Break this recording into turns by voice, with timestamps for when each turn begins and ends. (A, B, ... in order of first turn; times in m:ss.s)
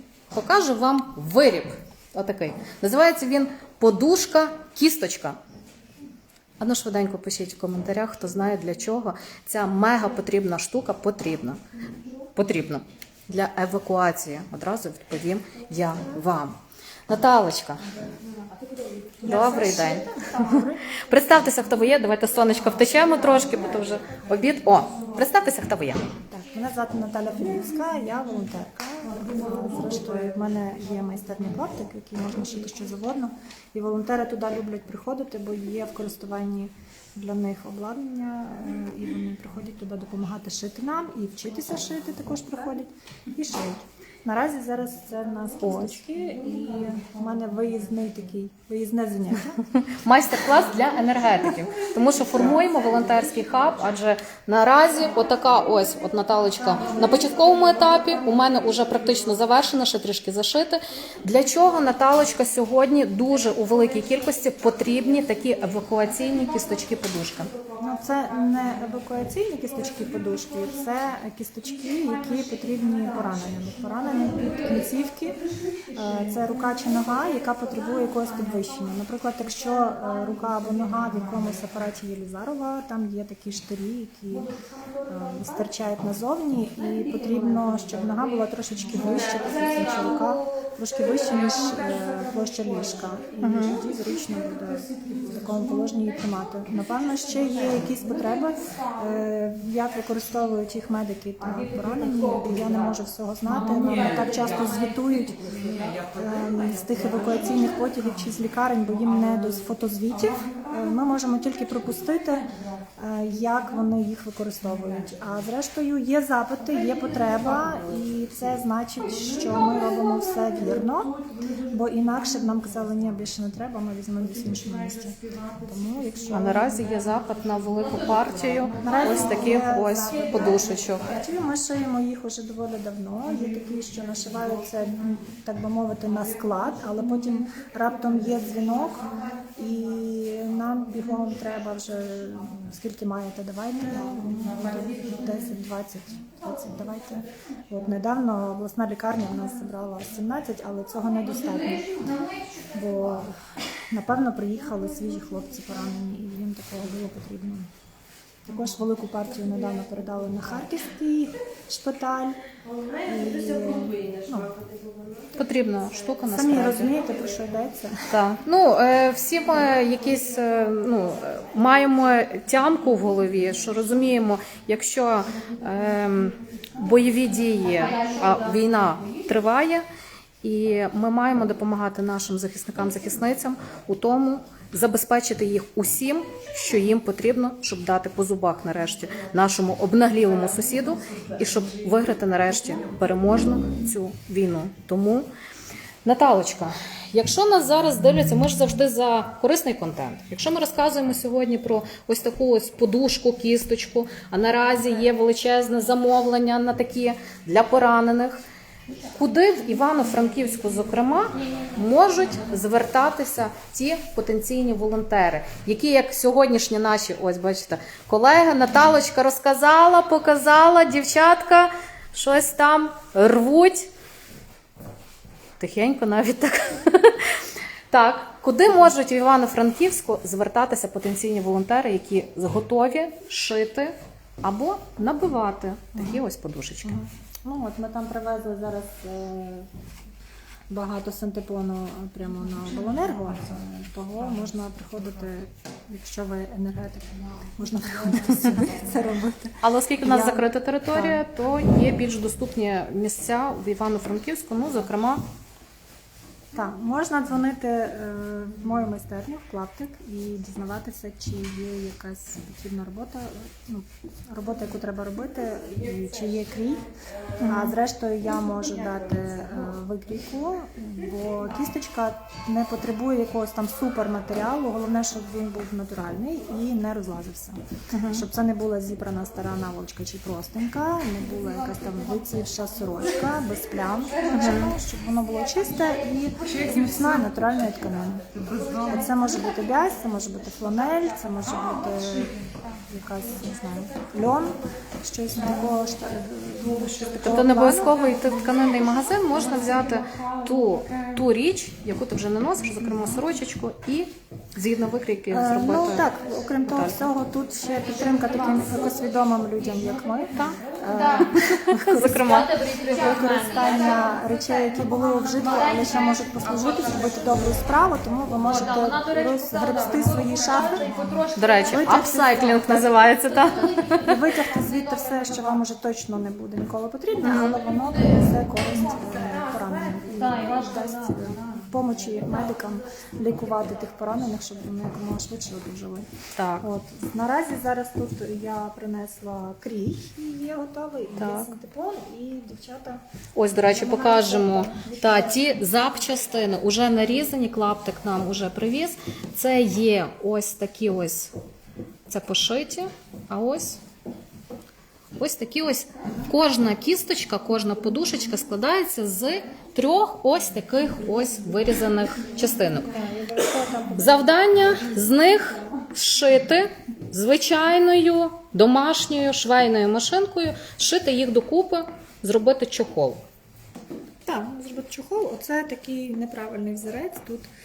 0:00.3-0:05.4 A
0:06.6-0:11.6 A
0:12.3-0:16.6 A
0:17.1-0:17.8 A
0:19.2-0:20.8 B
0:19.2-0:26.1 A
0:26.3-0:49.6 B
0:45.6-0:46.0 A
0:49.7-1:07.5 A
1:07.8-1:24.5 B
1:25.0-2:06.7 B
1:33.4-1:33.8 A
2:06.3-2:11.0 A
2:08.8-2:32.0 B
2:32.7-2:33.4 B
2:33.9-2:37.7 B
2:38.4-2:42.4 B
2:43.0-2:44.6 B
2:45.3-2:46.9 A
2:46.3-2:48.1 B
2:48.1-2:59.8 A
3:00.4-3:15.3 A
3:16.0-3:28.4 A
3:29.1-3:43.9 A
3:45.6-3:56.9 A
3:56.8-3:59.7 B
4:00.7-4:11.2 B
4:09.6-4:15.2 A
4:16.5-4:26.8 B
4:27.4-4:37.6 B
4:27.4-4:27.7 A
4:37.9-4:38.2 A
4:38.1-4:58.0 B
4:44.4-4:44.7 A
4:57.2-5:06.1 A
5:05.3-5:21.0 B
5:06.7-5:07.0 A
5:10.4-5:12.6 A
5:21.3-5:24.1 A
5:21.6-5:22.9 B
5:24.0-5:36.1 B
5:27.2-5:27.6 A
5:36.4-5:36.7 A
5:36.6-5:43.0 B
5:41.2-5:41.5 A
5:43.3-5:51.3 A
5:43.7-5:45.7 B
5:52.1-5:53.8 A
5:55.2-6:02.9 A
6:02.8-6:04.8 B
6:03.9-6:13.2 A
6:14.2-6:17.5 B